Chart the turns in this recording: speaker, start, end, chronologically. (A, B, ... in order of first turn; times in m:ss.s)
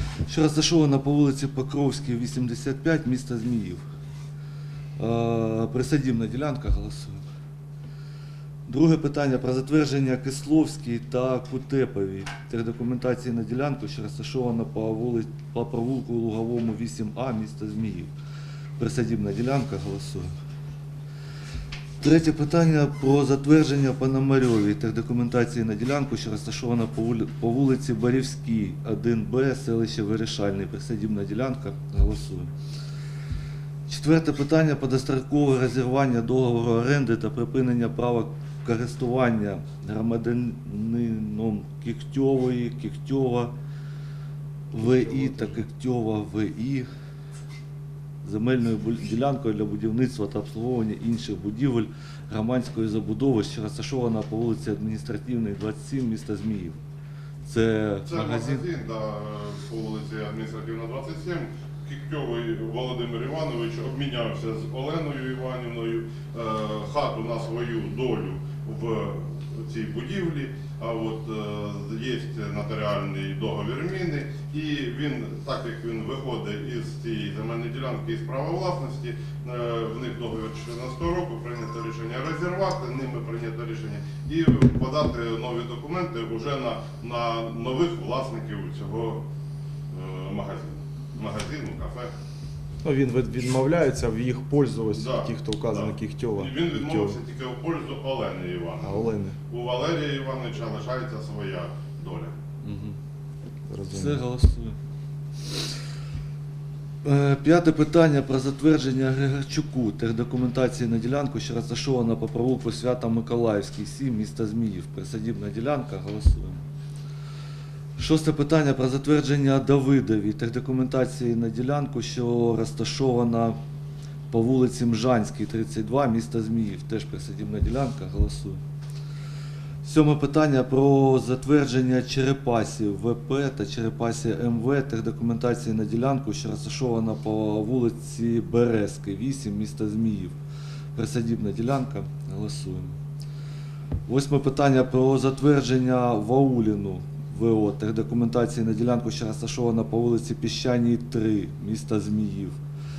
0:00.2-0:03.8 A
0:05.0-0:07.2 A
0:08.7-0:18.1 A
0:18.8-0:20.3 A
0:22.0-0:32.5 A
0:33.9-0:43.5 A
0:44.7-0:46.9 A
0:44.8-0:45.6 B
0:48.2-0:56.8 A
0:57.4-0:58.6 A
0:58.0-1:29.2 C
1:29.9-1:32.1 C
1:32.8-1:37.2 B
1:34.9-1:42.3 C
1:38.8-1:39.4 B
1:42.6-1:43.0 A
1:43.7-1:44.2 B
1:43.9-1:44.8 A
1:47.0-1:56.6 A
1:58.0-2:03.6 A
2:04.3-2:08.6 A
2:09.8-2:20.4 A
2:21.0-2:23.0 A
2:24.1-2:32.6 A